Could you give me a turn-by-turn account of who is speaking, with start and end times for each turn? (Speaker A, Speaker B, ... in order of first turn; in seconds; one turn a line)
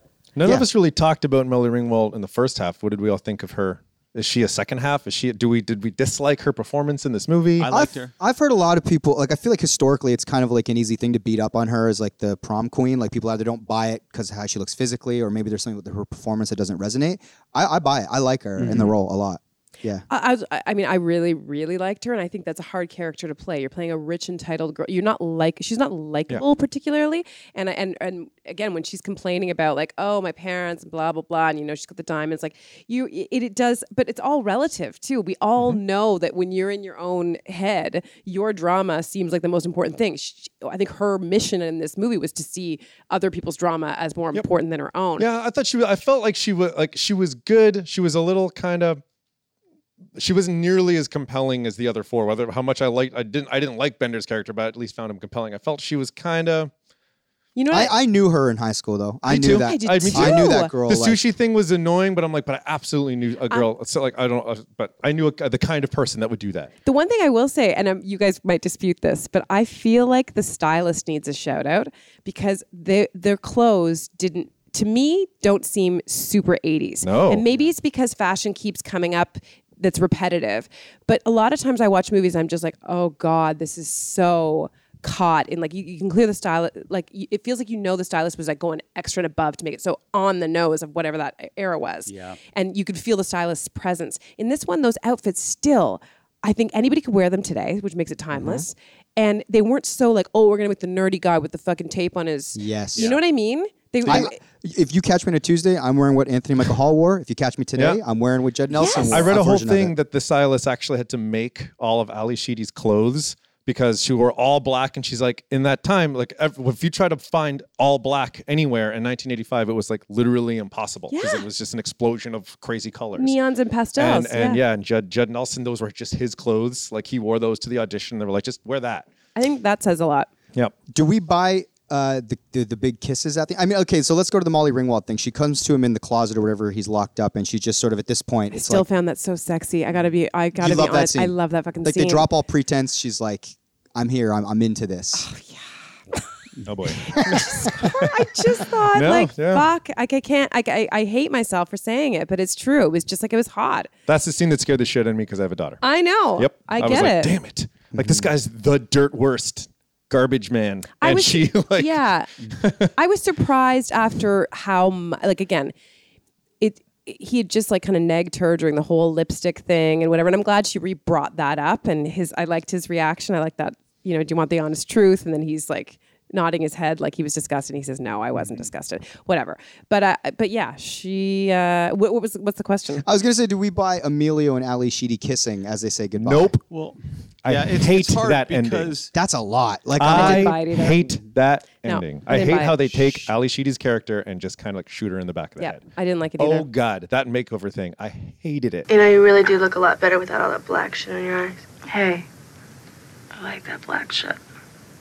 Speaker A: 0.4-7.7
Speaker B: 7.6-8.1
Speaker C: 7.7-20.0
Speaker B: 18.6-18.9
Speaker D: 20.1-45.3
Speaker A: 45.2-49.0
Speaker A: 50.2-56.7
Speaker D: 57.5-58.0
Speaker C: 57.7-61.2
Speaker A: 59.3-66.7
Speaker D: 59.4-60.7
Speaker D: 66.8-104.4
Speaker A: 77.0-77.4
Speaker B: 92.1-92.4
Speaker C: 98.3-98.7
Speaker C: 102.5-103.1
Speaker C: 104.1-109.9
Speaker D: 108.7-109.3
Speaker A: 109.1-123.4
Speaker D: 121.1-121.5
Speaker D: 123.2-124.6
Speaker A: 124.0-129.1
Speaker D: 129.3-130.3
Speaker C: 130.9-138.8
Speaker D: 138.5-142.3
Speaker C: 140.6-145.3
Speaker D: 145.2-146.3
Speaker A: 146.7-149.7
Speaker D: 146.9-153.9
Speaker A: 154.1-155.8
Speaker D: 155.8-157.4
Speaker A: 156.4-162.9
Speaker C: 157.9-158.3
Speaker D: 161.0-162.3
Speaker D: 162.9-165.7
Speaker D: 166.6-183.1
Speaker C: 183.0-186.5
Speaker A: 186.2-186.7
Speaker B: 186.7-189.1
Speaker A: 187.4-188.9
Speaker C: 189.1-190.5
Speaker A: 190.0-195.8
Speaker D: 190.0-191.2
Speaker D: 191.8-193.3
Speaker D: 195.6-196.7
Speaker A: 196.4-198.9
Speaker E: 198.9-202.3
Speaker E: 203.3-204.4